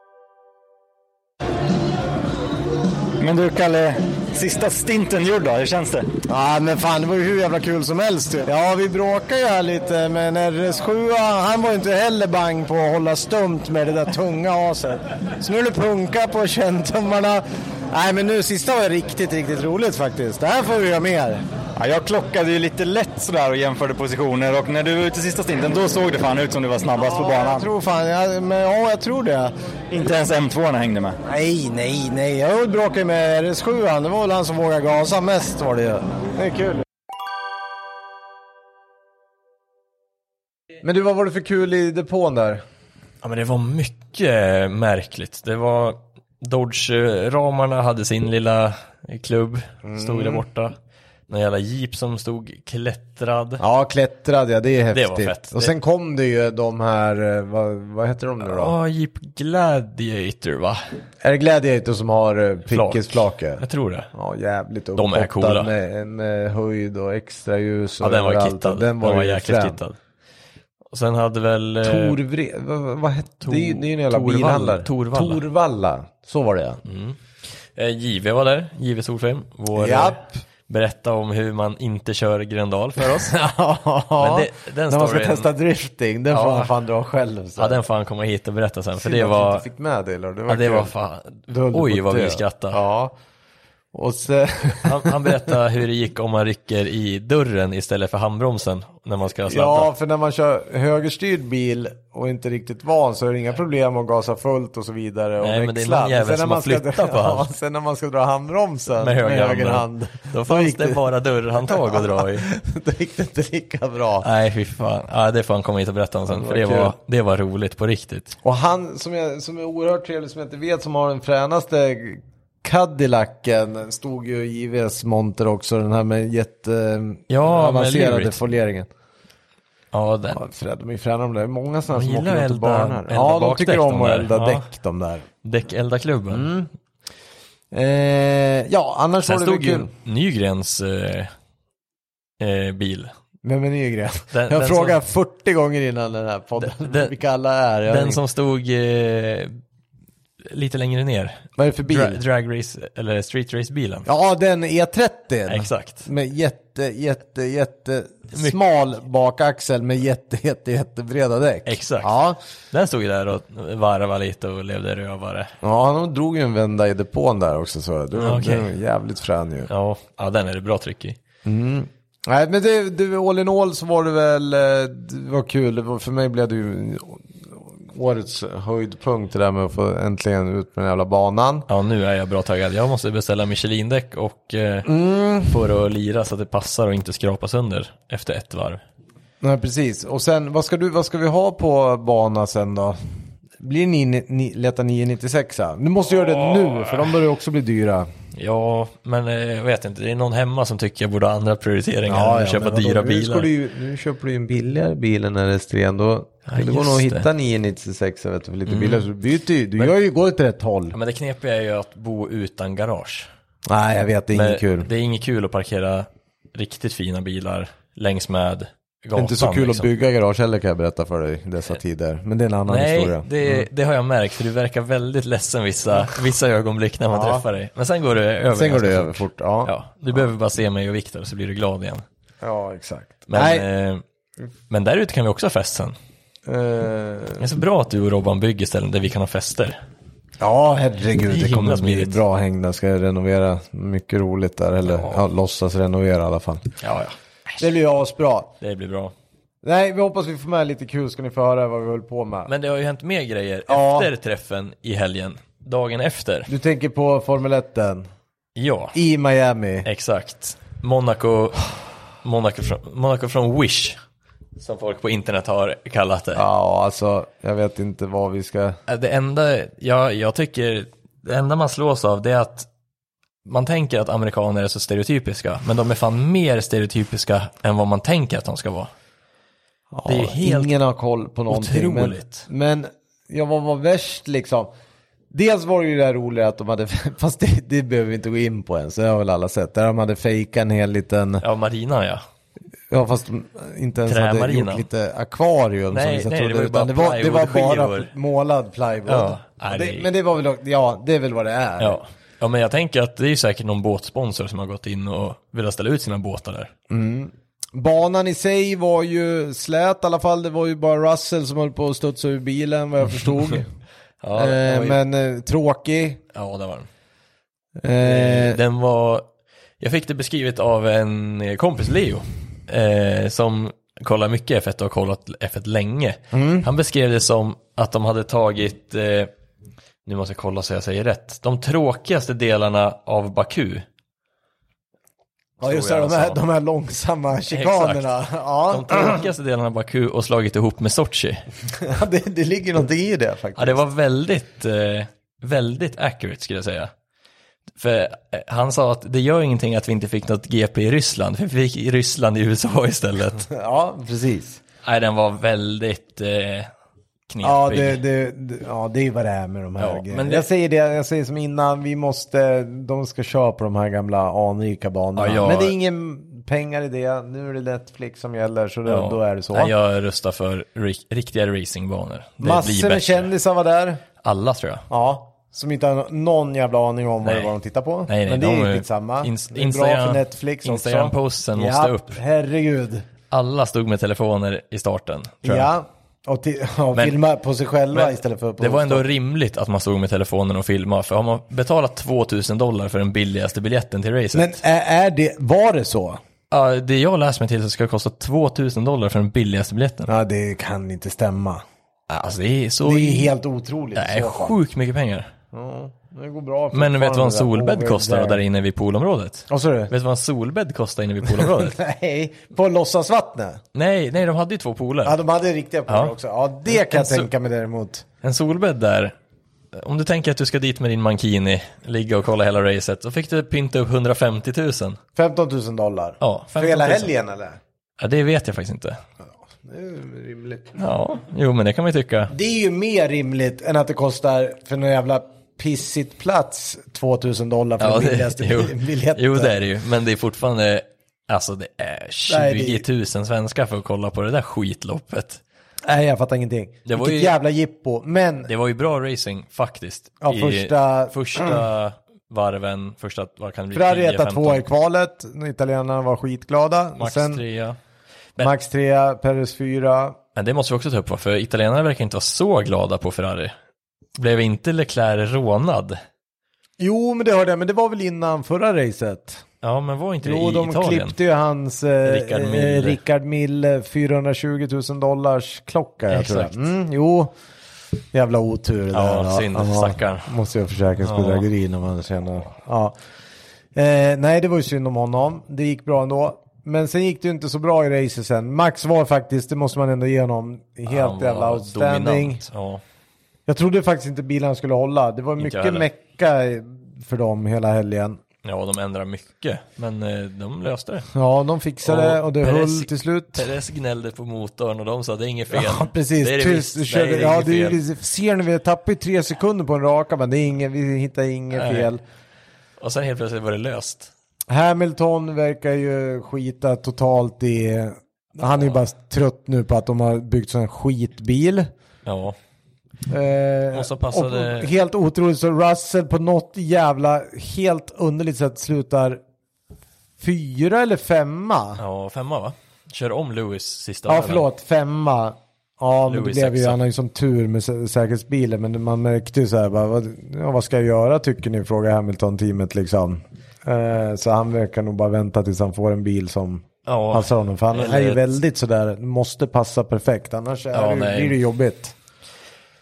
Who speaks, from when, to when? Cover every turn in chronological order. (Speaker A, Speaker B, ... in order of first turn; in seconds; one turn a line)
Speaker A: 3.2-6.1
Speaker B: 6.3-21.4
Speaker A: 21.8-27.7
Speaker B: 27.0-29.5
Speaker A: 29.9-31.2
Speaker B: 31.3-36.8
Speaker C: 40.8-42.6
Speaker D: 43.2-50.8
Speaker C: 49.9-50.4
Speaker D: 51.3-53.6
Speaker C: 53.6-58.8
Speaker D: 54.9-55.7
Speaker D: 58.4-60.8
Speaker C: 61.2-69.8
Speaker D: 62.7-64.1
Speaker D: 65.0-65.7
Speaker D: 68.0-70.0
Speaker D: 70.9-72.2
Speaker C: 71.8-76.8
Speaker D: 73.4-75.4
Speaker D: 76.8-77.2
Speaker D: 77.8-83.4
Speaker C: 79.7-80.4
Speaker C: 83.0-87.8
Speaker D: 84.2-85.5
Speaker D: 86.3-86.7
Speaker D: 87.6-89.7
Speaker C: 89.0-90.9
Speaker D: 90.5-92.8
Speaker C: 91.5-93.1
Speaker C: 93.9-95.6
Speaker D: 94.8-99.9
Speaker C: 99.5-111.0
Speaker D: 105.4-107.5
Speaker D: 109.0-112.5
Speaker C: 111.6-114.3
Speaker D: 114.2-118.3
Speaker C: 116.3-116.9
Speaker C: 118.4-128.9
Speaker D: 127.3-128.4
Speaker D: 129.9-130.4
Speaker C: 130.3-135.3
Speaker D: 131.9-134.7
Speaker D: 135.4-136.5
Speaker C: 136.3-136.7
Speaker C: 137.7-139.9
Speaker D: 139.2-141.3
Speaker D: 142.4-143.1
Speaker C: 143.4-148.2
Speaker D: 144.3-145.0
Speaker D: 146.6-147.1
Speaker D: 147.9-149.6
Speaker D: 150.5-154.1
Speaker C: 151.6-152.2
Speaker C: 154.1-162.4
Speaker D: 155.5-156.1
Speaker D: 161.7-162.1
Speaker D: 162.7-165.5
Speaker C: 165.6-169.7
Speaker D: 168.2-168.7
Speaker D: 169.7-171.2
Speaker C: 171.4-181.7
Speaker D: 181.7-184.9
Speaker C: 184.9-185.6
Speaker D: 185.4-188.8
Speaker C: 189.4-193.0
Speaker C: 193.6-198.1
Speaker D: 196.3-197.1
Speaker D: 198.3-203.5
Speaker C: 202.1-210.9
Speaker D: 206.5-207.3
Speaker D: 208.7-209.1
Speaker D: 210.9-213.3
Speaker C: 213.7-214.9
Speaker D: 214.3-219.9
Speaker C: 219.2-223.7
Speaker D: 222.7-232.0
Speaker C: 227.1-227.4
Speaker C: 228.5-229.7
Speaker C: 232.4-233.7
Speaker D: 233.3-234.0
Speaker D: 234.7-236.0
Speaker C: 236.5-237.4
Speaker D: 237.4-239.8
Speaker C: 240.4-246.7
Speaker D: 241.3-242.2
Speaker D: 244.9-245.2
Speaker D: 246.8-247.2
Speaker C: 247.6-248.5
Speaker D: 248.6-249.1
Speaker C: 249.6-252.5
Speaker D: 252.5-256.5
Speaker C: 253.7-254.1
Speaker C: 256.5-258.1
Speaker D: 258.6-259.0
Speaker C: 258.9-259.9
Speaker D: 259.9-264.0
Speaker D: 264.6-266.4
Speaker C: 266.4-268.8
Speaker D: 268.9-272.7
Speaker D: 273.4-278.9
Speaker C: 279.9-284.7
Speaker D: 280.1-280.7
Speaker D: 281.5-282.5
Speaker C: 285.3-291.4
Speaker D: 291.4-292.2
Speaker C: 292.9-302.0
Speaker D: 294.1-294.9
Speaker D: 295.9-298.1
Speaker D: 299.1-300.1
Speaker D: 301.8-306.7
Speaker C: 306.9-313.7
Speaker D: 314.2-315.0
Speaker C: 314.3-316.2
Speaker D: 316.3-316.9
Speaker C: 317.8-318.6
Speaker D: 318.0-319.3
Speaker D: 319.8-329.3
Speaker C: 326.3-326.7
Speaker D: 330.1-333.9
Speaker C: 335.6-339.2
Speaker D: 335.6-336.4
Speaker D: 337.5-338.1
Speaker D: 338.7-341.4
Speaker C: 341.7-343.8
Speaker D: 343.6-346.9
Speaker D: 347.8-353.5
Speaker C: 353.5-354.6
Speaker D: 354.8-356.7
Speaker D: 357.3-358.0
Speaker C: 357.4-369.7
Speaker D: 359.8-360.5
Speaker D: 365.2-365.8
Speaker D: 368.9-373.3
Speaker C: 372.4-374.0
Speaker D: 374.2-374.9
Speaker C: 374.9-383.1
Speaker D: 377.2-377.5
Speaker D: 378.1-382.2
Speaker D: 383.3-385.7
Speaker C: 385.4-389.1
Speaker D: 387.9-394.6
Speaker C: 394.3-396.2
Speaker D: 396.5-400.1
Speaker C: 400.1-401.6
Speaker D: 402.1-403.3
Speaker C: 402.8-404.6
Speaker D: 403.9-405.3
Speaker C: 405.5-408.4
Speaker D: 406.7-411.8
Speaker C: 409.5-409.9
Speaker C: 411.2-413.6
Speaker D: 413.7-415.2
Speaker C: 415.1-418.1
Speaker D: 415.9-416.1
Speaker D: 416.7-417.3
Speaker D: 418.2-419.1
Speaker D: 419.7-425.0
Speaker C: 425.2-427.6
Speaker D: 426.2-427.1
Speaker D: 428.0-429.0
Speaker C: 429.6-430.8
Speaker D: 430.8-432.3
Speaker C: 432.3-439.6
Speaker D: 437.8-445.4
Speaker C: 442.3-442.9
Speaker C: 445.8-448.5
Speaker D: 446.9-447.3
Speaker D: 448.5-454.6
Speaker C: 450.2-451.6
Speaker C: 453.7-457.4
Speaker D: 457.0-457.8
Speaker C: 458.4-460.2
Speaker D: 460.4-463.5
Speaker D: 464.2-466.0
Speaker C: 466.8-469.4
Speaker D: 469.6-471.2
Speaker C: 470.2-477.3
Speaker D: 472.0-473.0
Speaker D: 476.1-476.6
Speaker C: 478.1-483.0
Speaker D: 478.9-480.3
Speaker D: 481.0-481.5
Speaker C: 483.7-492.4
Speaker D: 490.9-492.8
Speaker C: 493.5-498.2
Speaker D: 495.4-495.9
Speaker D: 498.4-501.1
Speaker C: 501.1-503.4
Speaker D: 501.8-507.8
Speaker C: 505.5-512.0
Speaker D: 511.5-511.9
Speaker D: 512.8-514.1
Speaker C: 514.5-521.7
Speaker D: 522.0-522.4
Speaker C: 523.1-529.2
Speaker D: 523.7-524.7
Speaker C: 530.2-531.8
Speaker D: 531.8-534.5
Speaker C: 534.1-551.9
Speaker D: 536.1-536.8
Speaker D: 546.9-548.3
Speaker D: 550.7-551.4